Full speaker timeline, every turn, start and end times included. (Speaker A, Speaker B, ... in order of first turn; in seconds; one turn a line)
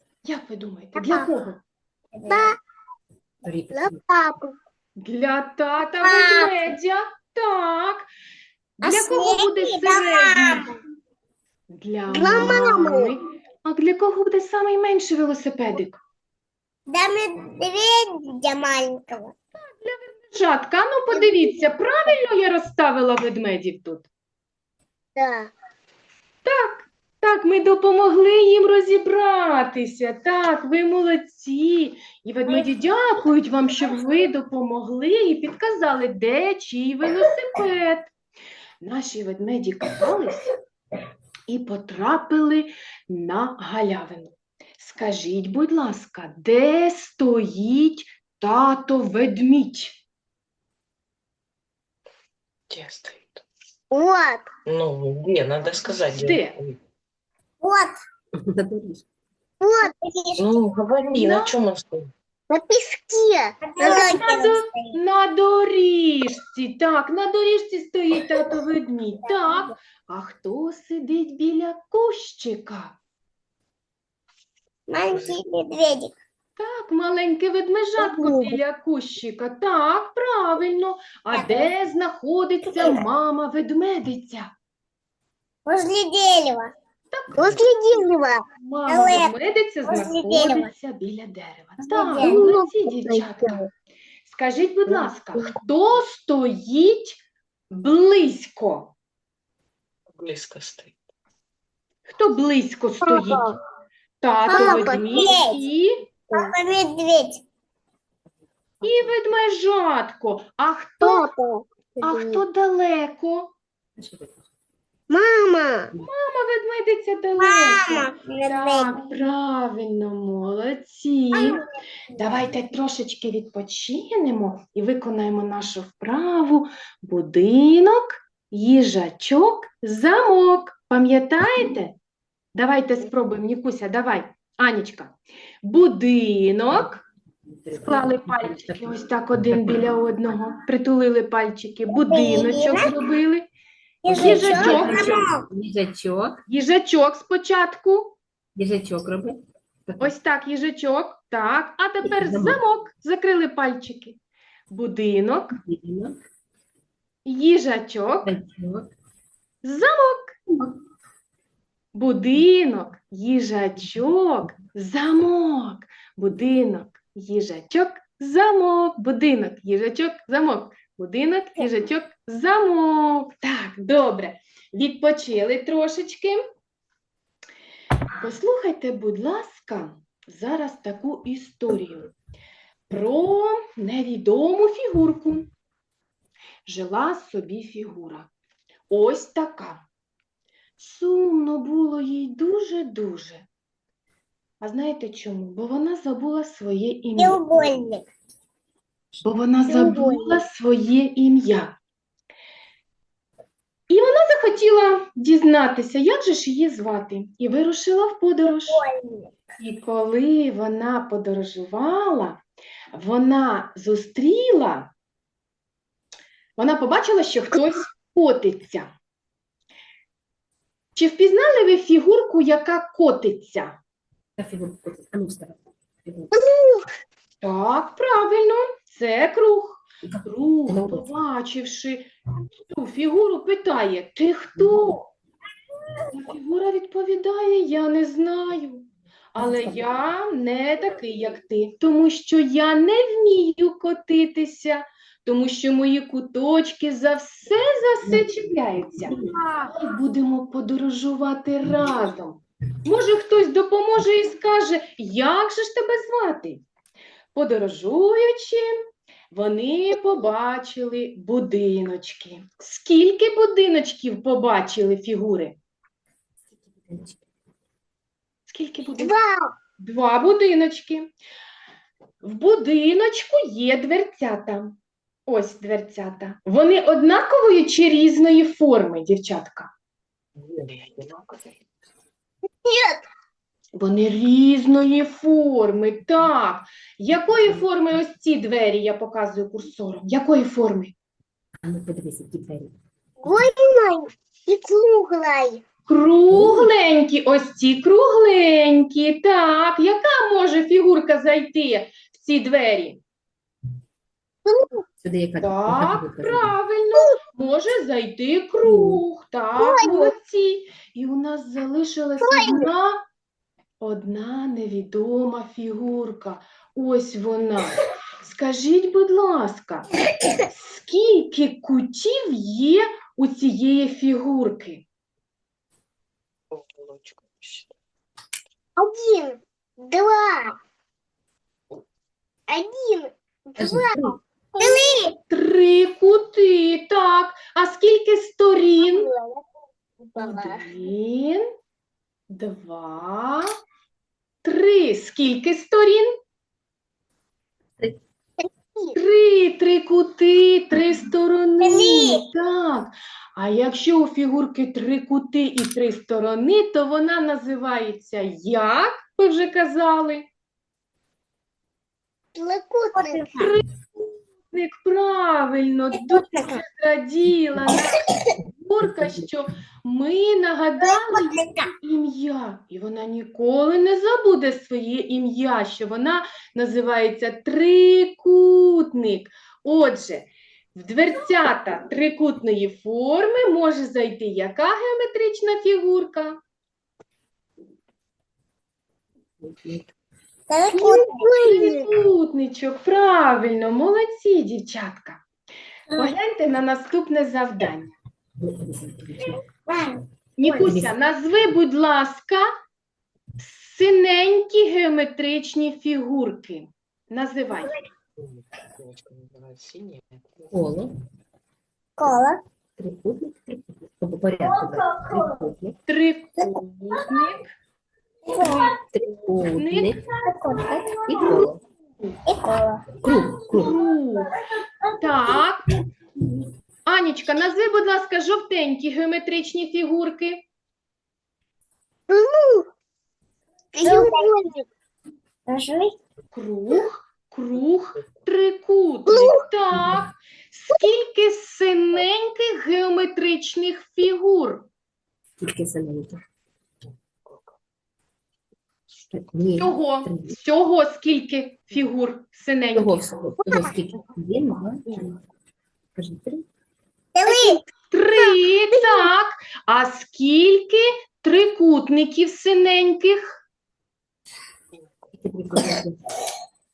Speaker A: 0.2-1.6
Speaker B: 2.1-2.5
Speaker C: 2.3-2.5
Speaker D: 3.4-4.0
Speaker C: 3.7-4.5
Speaker A: 5.0-8.1
Speaker B: 6.0-6.5
Speaker B: 8.8-10.7
Speaker A: 8.8-10.7
Speaker A: 11.7-16.0
Speaker C: 12.1-13.1
Speaker B: 16.9-19.3
Speaker A: 19.6-24.1
Speaker C: 25.1-25.5
Speaker A: 26.4-38.1
Speaker A: 38.8-40.5
Speaker A: 41.5-50.0
Speaker E: 52.7-53.4
Speaker C: 53.9-54.5
Speaker E: 54.6-56.8
Speaker A: 55.8-56.6
Speaker B: 57.6-58.0
Speaker D: 58.4-59.0
Speaker C: 59.6-59.9
Speaker B: 59.9-60.5
Speaker E: 60.4-62.1
Speaker A: 61.1-61.5
Speaker C: 62.5-64.2
Speaker B: 63.6-65.0
Speaker A: 63.8-73.0
Speaker B: 69.2-69.7
Speaker B: 74.9-76.1
Speaker E: 75.1-75.4
Speaker A: 76.6-84.5
Speaker C: 78.0-78.6
Speaker B: 81.3-81.7
Speaker B: 82.7-83.0
Speaker B: 85.7-86.7
Speaker A: 87.1-88.0
Speaker C: 87.3-88.4
Speaker A: 88.6-93.6
Speaker B: 88.9-89.3
Speaker B: 89.8-90.7
Speaker B: 92.0-92.4
Speaker C: 92.1-93.5
Speaker A: 94.2-97.2
Speaker A: 97.7-98.9
Speaker E: 100.1-101.0
Speaker A: 102.1-103.5
Speaker C: 103.0-103.5
Speaker A: 104.2-105.9
Speaker B: 104.5-105.5
Speaker C: 104.5-105.6
Speaker B: 106.3-107.4
Speaker A: 108.8-111.3
Speaker C: 111.0-112.4
Speaker A: 112.0-113.5
Speaker D: 114.0-114.4
Speaker C: 115.1-115.9
Speaker A: 116.0-121.6
Speaker C: 117.6-118.5
Speaker B: 118.6-118.9
Speaker A: 122.2-131.9
Speaker A: 132.5-137.0
Speaker D: 137.5-139.8
Speaker A: 137.8-143.5
Speaker B: 142.0-142.9
Speaker B: 144.0-145.5
Speaker A: 144.1-145.1
Speaker D: 144.1-146.4
Speaker A: 146.5-148.2
Speaker D: 148.5-150.1
Speaker A: 150.0-154.2
Speaker D: 152.0-152.6
Speaker A: 154.7-155.6
Speaker D: 155.5-156.2
Speaker A: 157.2-158.4
Speaker D: 158.2-158.9
Speaker A: 159.6-160.4
Speaker A: 161.9-176.4
Speaker A: 178.2-182.1
Speaker A: 182.9-185.5
Speaker A: 186.7-188.3
Speaker A: 188.9-189.8
Speaker A: 190.8-193.5
Speaker A: 194.6-197.7
Speaker B: 197.2-198.1
Speaker A: 199.2-201.8
Speaker C: 199.7-200.4
Speaker A: 203.9-208.8
Speaker B: 208.7-209.3
Speaker A: 209.6-212.4
Speaker A: 212.9-214.9
Speaker A: 216.6-218.9
Speaker A: 220.9-223.8
Speaker D: 224.4-226.3
Speaker C: 226.3-226.9
Speaker A: 227.4-232.1
Speaker D: 230.0-231.1
Speaker A: 232.7-235.1
Speaker A: 236.1-249.1
Speaker D: 239.3-239.8
Speaker D: 248.0-248.3
Speaker D: 249.0-249.3
Speaker A: 249.6-256.6
Speaker A: 257.3-258.7
Speaker A: 259.3-265.6
Speaker D: 266.5-267.2
Speaker A: 268.5-269.2
Speaker C: 269.0-269.5
Speaker A: 269.8-271.1
Speaker A: 272.2-279.7
Speaker E: 280.4-281.6
Speaker C: 282.6-283.0
Speaker A: 283.7-290.9
Speaker D: 287.4-287.6
Speaker D: 291.6-292.7
Speaker C: 293.2-295.6
Speaker A: 295.9-303.0
Speaker D: 296.3-296.7
Speaker C: 304.4-304.8
Speaker D: 305.0-306.5
Speaker A: 305.4-313.0
Speaker D: 308.6-309.0
Speaker C: 309.6-310.1
Speaker C: 312.2-312.6
Speaker A: 313.8-319.9
Speaker A: 320.4-324.9
Speaker E: 326.5-327.7
Speaker C: 328.8-330.5
Speaker C: 332.5-335.1
Speaker D: 333.6-334.2
Speaker B: 334.6-335.0
Speaker A: 335.3-339.1
Speaker C: 338.8-339.4
Speaker C: 340.0-340.6
Speaker A: 340.1-341.4
Speaker A: 342.3-343.5
Speaker A: 344.4-346.1
Speaker A: 348.9-360.3
Speaker C: 351.6-352.2
Speaker C: 362.3-363.3
Speaker B: 362.9-363.5
Speaker A: 363.3-363.6
Speaker A: 364.5-386.4
Speaker D: 368.8-369.2
Speaker B: 370.9-371.7
Speaker D: 389.4-389.9
Speaker B: 390.5-391.3
Speaker C: 390.7-391.9
Speaker A: 391.3-395.2
Speaker A: 395.9-397.9
Speaker D: 398.4-399.4
Speaker B: 399.3-400.0
Speaker A: 400.4-402.4
Speaker D: 400.5-400.9
Speaker A: 403.4-407.8
Speaker E: 408.2-410.6
Speaker D: 410.5-410.9
Speaker B: 412.0-412.4
Speaker D: 412.8-415.8
Speaker B: 414.6-415.3
Speaker A: 415.9-417.5
Speaker B: 418.3-418.8
Speaker A: 418.4-418.7
Speaker D: 418.9-421.6
Speaker A: 419.6-420.0
Speaker B: 420.2-421.5
Speaker B: 422.2-422.9
Speaker D: 423.0-423.8
Speaker A: 423.5-424.3
Speaker A: 425.0-425.6
Speaker A: 426.9-430.4
Speaker C: 432.1-432.7
Speaker C: 433.7-434.6
Speaker B: 433.8-434.3
Speaker B: 435.5-435.9
Speaker A: 436.3-444.7
Speaker C: 439.1-439.4
Speaker D: 445.4-446.2
Speaker E: 447.2-447.5
Speaker D: 449.1-450.4
Speaker A: 449.6-453.0
Speaker D: 452.7-455.2
Speaker D: 455.9-456.4
Speaker B: 457.1-457.6
Speaker C: 457.3-457.6
Speaker A: 457.9-463.4
Speaker D: 465.2-466.0